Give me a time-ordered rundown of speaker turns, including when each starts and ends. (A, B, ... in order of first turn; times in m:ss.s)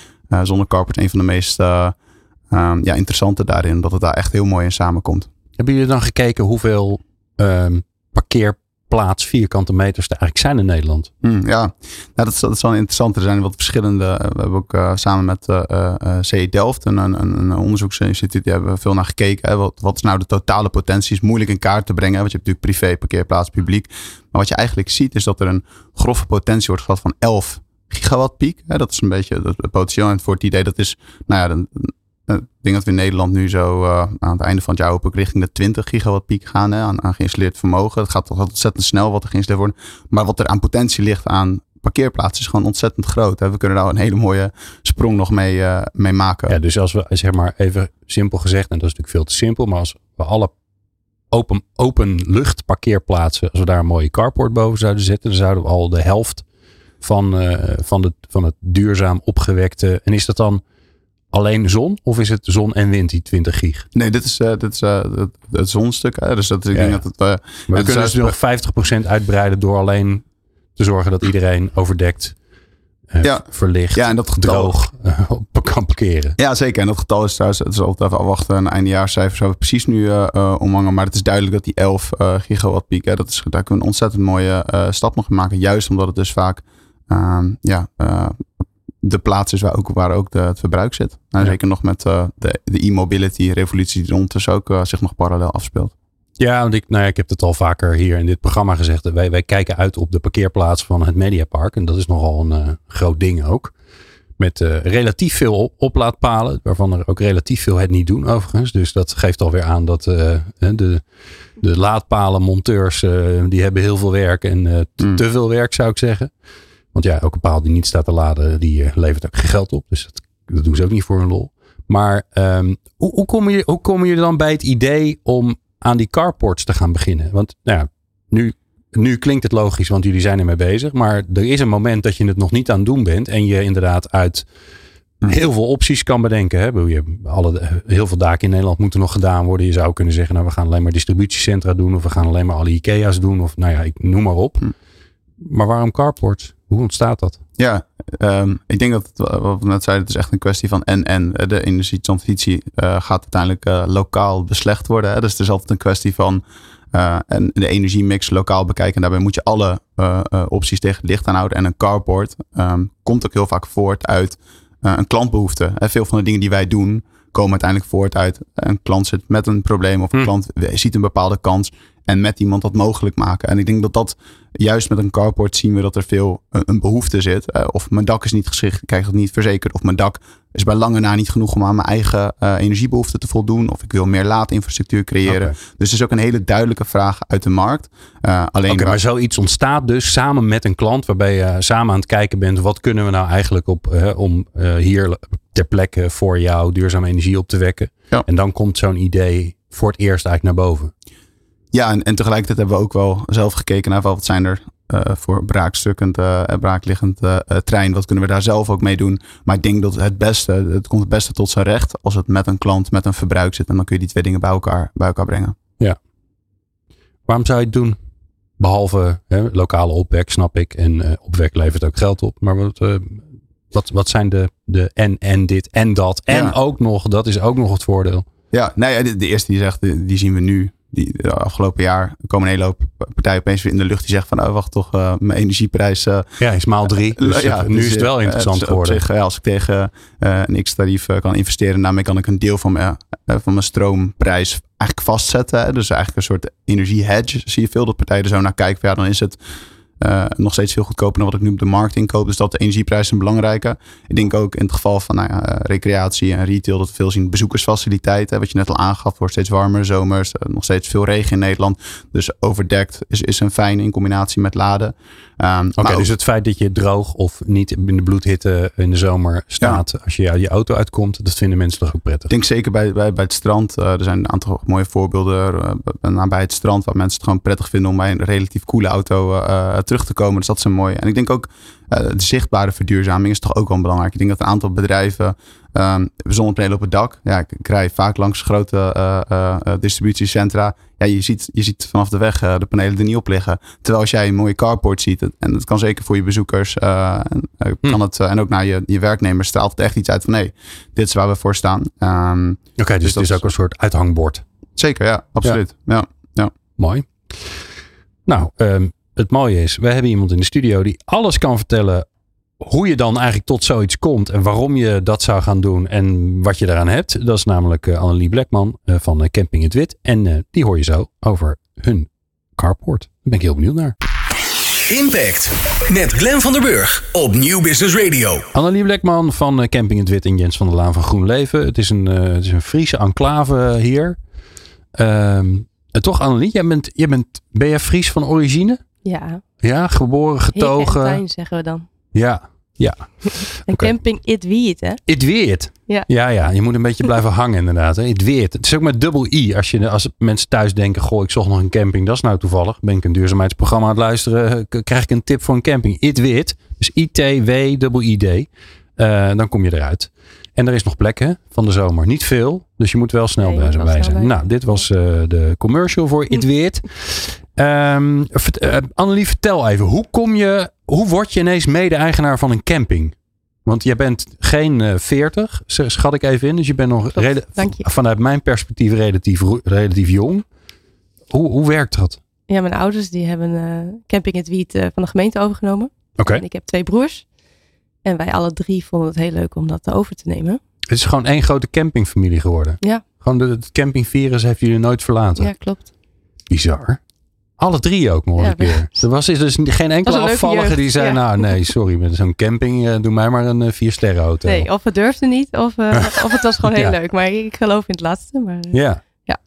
0:00.3-0:02.0 A
0:02.5-0:05.3 A
0:05.6-0:11.1 B
0:11.2-0:46.6 A
0:46.5-0:50.5 B
0:51.3-0:56.4 B
0:57.0-1:00.6 B
1:01.3-1:03.9 B
1:03.9-1:08.3 A
1:06.7-1:07.0 B
1:07.7-1:12.4 B
1:13.1-1:16.4 B
1:13.2-1:14.7 A
1:16.4-1:28.4 A
1:29.0-1:35.9 A
1:36.4-1:43.7 B
1:44.4-1:51.0 B
1:51.6-1:56.3 B
1:56.9-2:14.4 B
2:15.2-2:24.7 B
2:25.4-2:27.4 B
2:27.6-2:36.4 A
2:36.9-3:09.0 A
3:05.2-3:05.5 B
3:08.7-3:20.9 B
3:21.7-3:35.6 A
3:37.3-3:38.0 B
3:38.6-3:48.2 B
3:46.3-3:46.5 A
3:48.5-3:56.3 A
3:56.4-3:59.0 B
3:57.0-4:09.4 A
4:10.0-4:26.1 A
4:25.8-4:32.3 B
4:32.3-5:03.4 A
5:02.8-5:04.4 B
5:04.8-5:06.5 A
5:06.8-5:07.7 B
5:08.2-5:12.0 B
5:12.6-5:23.9 B
5:24.9-5:28.5 C
5:28.5-5:34.2 B
5:34.9-5:38.8 B
5:39.0-5:39.4 D
5:39.6-5:41.2 B
5:40.5-5:41.8 D
5:42.1-5:43.9 B
5:43.7-5:45.0 D
5:45.1-6:20.4 B
6:03.4-6:04.8 D
6:17.1-6:17.9 D
6:21.3-6:22.2 B
6:22.5-6:27.2 D
6:26.2-6:26.4 B
6:28.0-6:30.6 D
6:30.9-6:35.5 B
6:35.4-6:35.9 D
6:36.5-6:37.0 B
6:37.6-6:44.7 B
6:38.4-6:38.8 D
6:40.0-6:41.5 D
6:44.4-6:49.4 D
6:46.1-6:46.9 B
6:48.7-6:49.0 B